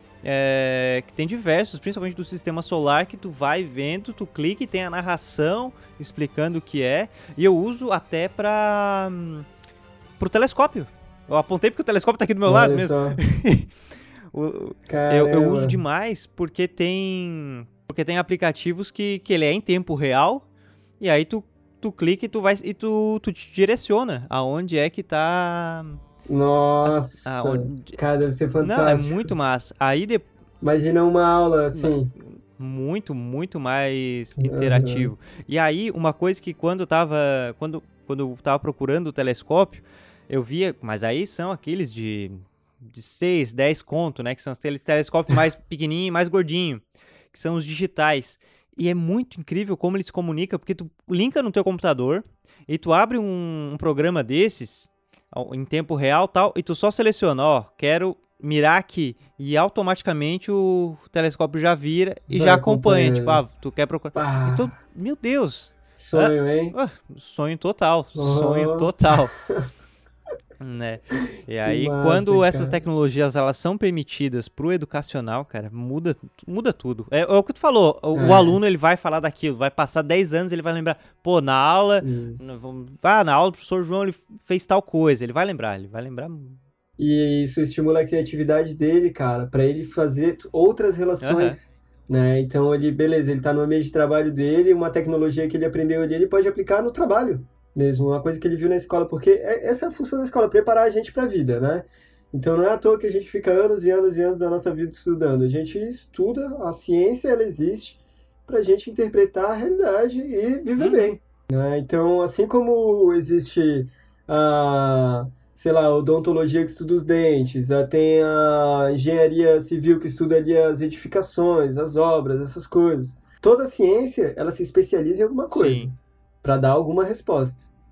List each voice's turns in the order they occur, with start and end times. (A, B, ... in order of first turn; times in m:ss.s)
0:00.2-0:09.5 A
0:10.2-0:13.7 A
0:12.4-0:13.2 B
0:14.3-0:20.4 A
0:14.9-0:15.8 B
0:21.0-0:26.0 A
0:26.3-0:29.3 B
0:26.8-0:28.0 A
0:28.6-0:30.2 A
0:30.6-0:32.1 B
0:31.7-1:09.3 A
0:34.4-0:35.1 B
1:02.3-1:03.4 B
1:04.1-1:04.7 B
1:06.0-1:06.8 B
1:08.1-1:08.9 B
1:10.6-1:26.6 A
1:11.6-1:12.8 B
1:18.1-1:18.6 B
1:22.0-1:22.6 B
1:27.0-2:07.7 B
1:31.2-1:31.6 A
1:50.8-1:51.1 A
2:05.5-2:05.9 A